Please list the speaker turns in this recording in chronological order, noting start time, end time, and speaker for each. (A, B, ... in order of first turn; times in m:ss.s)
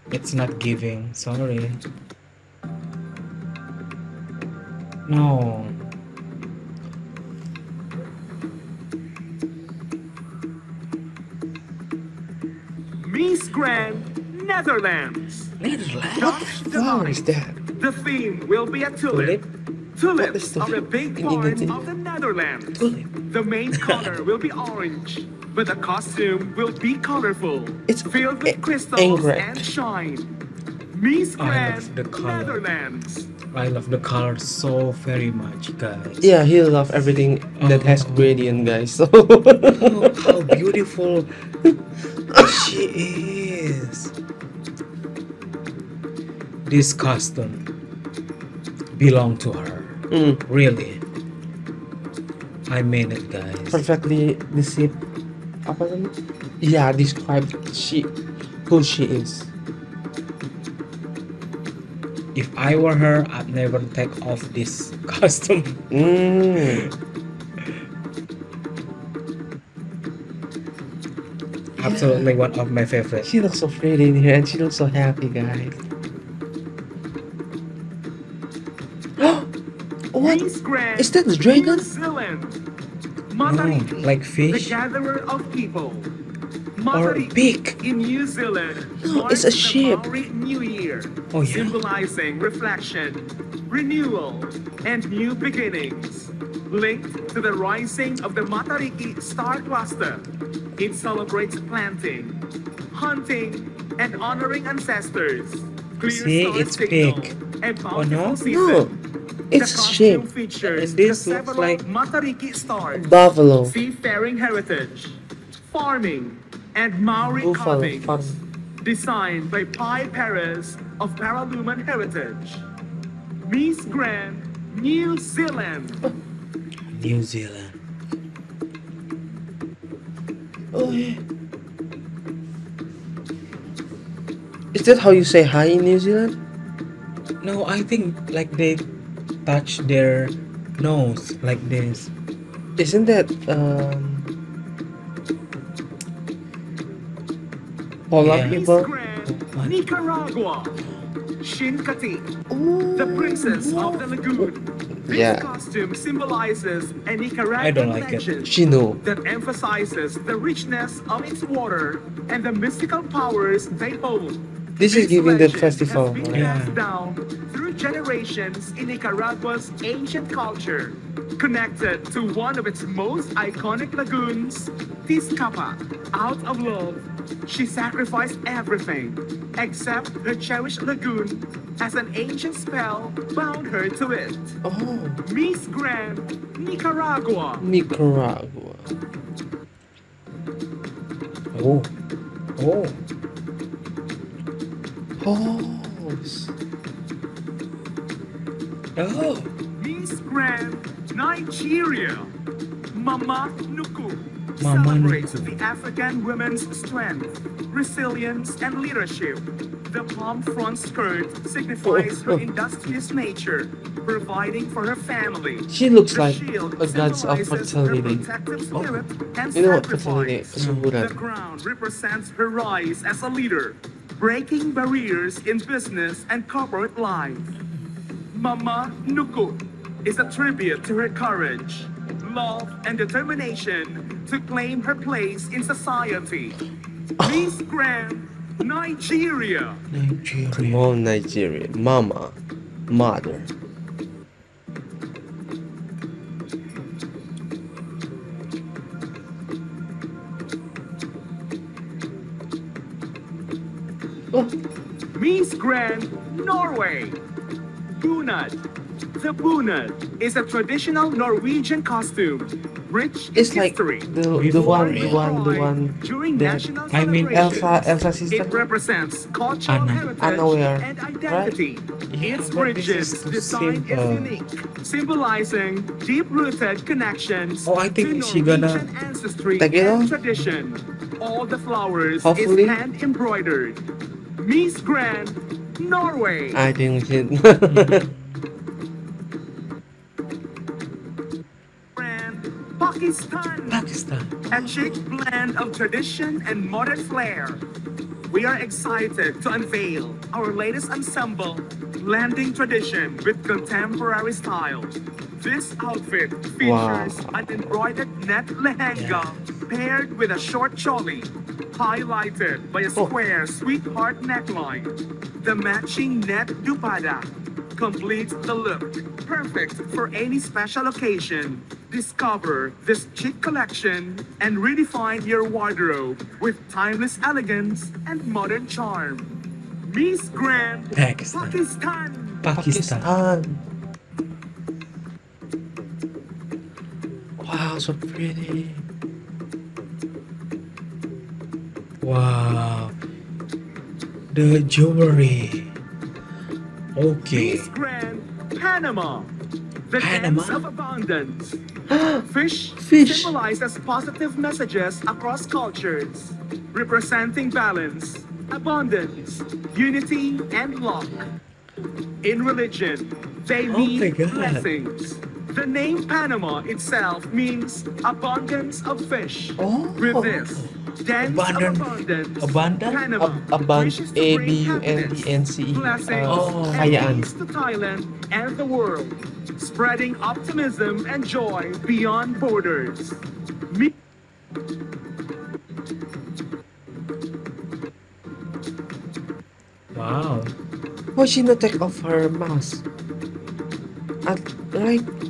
0:00.1-0:01.8 A
0:05.1-0:05.9 A
0:13.0-0:15.5 B
0:15.6-0:16.6 A
0:16.2-0:17.2 B
0:16.2-0:17.6 C
0:17.8-0:19.4 B
0:19.1-0:19.4 A
0:20.0-0:30.4 B
0:20.2-0:21.9 C
0:22.8-0:23.1 A
0:23.8-0:24.1 A
0:27.9-0:29.7 C
0:30.9-0:33.3 B
0:31.4-0:32.6 A
0:33.5-0:36.3 A
0:36.2-0:40.6 C
0:37.6-0:38.8 A
0:39.7-0:41.4 A
0:42.3-0:42.6 C
0:42.3-0:44.1 A
0:46.7-0:47.7 A
0:49.0-0:51.0 A
0:50.1-0:50.4 C
0:52.7-0:53.8 A
0:53.7-0:55.0 C
0:55.6-0:58.1 C
0:58.7-0:59.5 C
1:02.4-1:05.9 A
1:05.9-1:06.9 C
1:06.6-1:06.9 A
1:11.8-1:13.3 A
1:11.8-1:12.4 C
1:13.2-1:15.8 C
1:19.2-1:19.5 C
1:20.1-1:20.4 C
1:20.2-1:22.6 B
1:21.0-1:21.9 C
1:23.3-1:26.1 B
1:23.4-1:24.8 A
1:26.8-1:40.3 B
1:26.9-1:27.8 A
1:29.0-1:30.0 C
1:31.3-1:31.8 A
1:40.8-1:48.9 B
1:46.0-1:47.4 A
1:47.9-1:48.4 A
1:48.4-1:49.0 C
1:49.5-1:50.3 C
1:49.6-1:53.1 B
1:50.6-1:51.8 A
1:52.9-1:53.8 C
1:53.6-2:02.6 B
1:57.2-1:58.4 C
2:03.5-2:06.1 B
2:06.9-2:07.8 A
2:10.7-2:11.1 C
2:10.8-2:11.2 A
2:14.7-2:16.4 C
2:17.4-2:18.8 A
2:19.4-2:22.1 A
2:22.8-2:24.3 C
2:28.1-2:28.9 C
2:28.2-2:28.6 A
2:28.5-2:30.8 B
2:29.3-2:29.8 A
2:31.4-2:32.3 B
2:32.5-2:35.5 C
2:33.0-3:04.6 B
2:37.6-2:38.5 A
2:38.5-2:39.0 C
2:44.8-2:46.5 C
2:46.3-2:46.8 A
3:04.6-3:05.2 C
3:05.2-3:07.7 B
3:07.6-3:08.9 C
3:11.5-3:11.9 A
3:12.6-3:13.0 A
3:15.2-3:16.5 C
3:19.0-3:19.5 A
3:19.8-3:22.3 B
3:22.9-3:47.5 B
3:24.6-3:25.6 A
3:31.8-3:32.4 C
3:35.7-3:38.2 C
3:38.7-3:39.0 A
3:39.6-3:41.2 C
3:40.6-3:40.9 A
3:48.3-3:56.6 B
3:57.2-3:57.5 C
3:57.2-3:59.8 B
3:59.9-4:00.8 A
4:00.5-4:02.4 C
4:02.9-4:03.5 C
4:15.1-4:17.2 B
4:17.9-4:18.6 B
4:19.2-4:43.8 B
4:23.4-4:26.7 C
4:24.3-4:25.3 A
4:26.9-4:27.7 A
4:27.3-4:28.7 C
4:29.7-4:30.1 A
4:30.2-4:31.6 C
4:32.1-4:34.4 A
4:37.7-4:38.9 A
4:39.6-4:40.2 C
4:42.2-4:42.8 C
4:44.4-4:46.6 B
4:46.5-4:48.1 C
4:47.7-4:48.4 A
4:52.0-4:53.8 B
4:53.7-4:54.5 A
4:54.5-4:55.1 C
4:54.5-4:57.6 B
4:58.3-5:32.5 B
5:06.6-5:07.7 C
5:08.9-5:09.4 A
5:31.0-5:31.6 A
5:32.4-5:33.1 A
5:32.6-5:33.6 C
5:37.4-5:38.9 C
5:42.0-5:42.9 A
5:44.3-5:45.7 A
5:47.0-5:47.7 A
5:47.3-5:49.3 B
5:49.9-5:51.6 B
5:50.0-5:50.6 A
5:51.9-5:52.2 C
5:52.2-6:01.3 B
5:52.8-5:53.4 C
6:02.2-6:23.9 B
6:03.7-6:04.6 A
6:09.6-6:10.4 C
6:10.5-6:13.0 A
6:13.2-6:17.3 C
6:16.3-6:17.1 A
6:29.9-6:30.6 A
6:31.2-6:32.8 C
6:34.2-6:35.1 C